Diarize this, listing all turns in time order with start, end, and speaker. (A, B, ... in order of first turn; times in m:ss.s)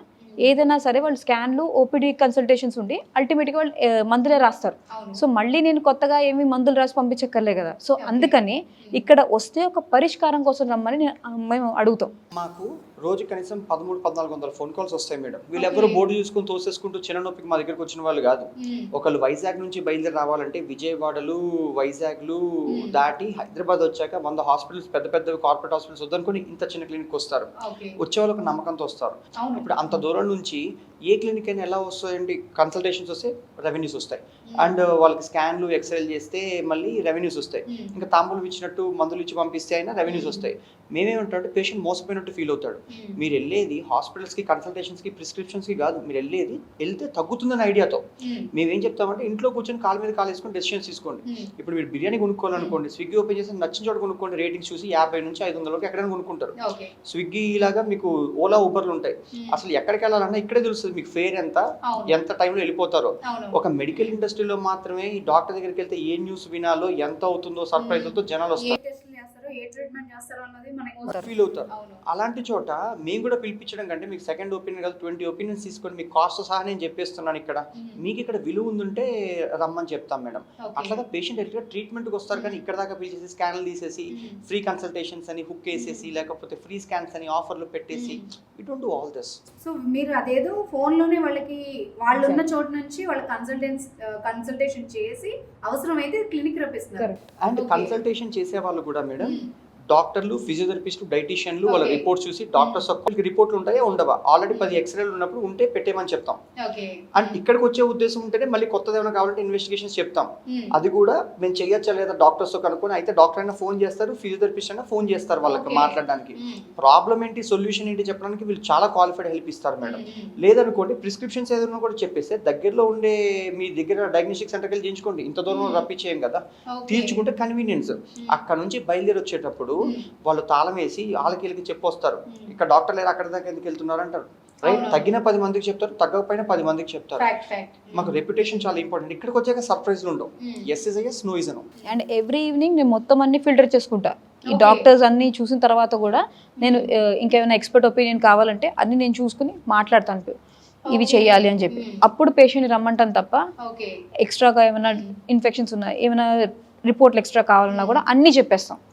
0:00.4-0:12.1 A
0:04.9-0:05.2 B
0:08.0-0:09.0 B
0:12.3-0:48.0 C
0:15.5-0:16.0 B
0:18.6-0:18.9 B
0:22.7-0:23.0 B
0:27.6-0:28.0 B
0:29.4-0:30.0 B
0:34.5-0:34.8 B
0:37.7-0:37.9 B
0:40.0-0:40.5 B
0:42.9-0:43.2 B
0:48.2-0:48.5 B
0:48.5-0:56.6 C
0:51.2-0:51.5 B
0:52.5-0:52.8 B
0:56.6-0:56.9 B
0:57.1-1:08.8 C
0:59.3-0:59.6 B
1:01.8-1:02.2 B
1:03.2-1:04.2 B
1:07.7-1:12.0 B
1:11.1-1:29.4 C
1:17.8-1:18.0 B
1:20.6-1:21.0 B
1:22.3-1:22.6 B
1:24.1-1:24.4 B
1:25.7-1:26.1 B
1:27.9-1:28.2 B
1:29.6-1:38.0 B
1:32.1-1:32.4 A
1:37.4-1:46.4 C
1:39.2-1:39.5 B
1:41.6-1:42.9 B
1:44.5-1:44.8 B
1:46.6-1:47.4 B
1:47.2-2:17.3 C
1:50.5-1:50.7 B
1:55.4-1:56.7 B
1:59.8-2:00.4 B
2:05.5-2:05.9 B
2:06.7-2:07.2 B
2:09.8-2:10.1 B
2:14.6-2:15.2 B
2:17.2-2:18.7 B
2:17.9-2:21.7 C
2:20.4-2:20.7 B
2:21.8-2:30.3 A
2:24.5-2:24.9 B
2:30.9-2:32.1 B
2:30.9-2:33.4 A
2:33.6-2:34.0 B
2:34.2-2:38.8 A
2:34.8-2:35.1 B
2:37.7-2:38.0 B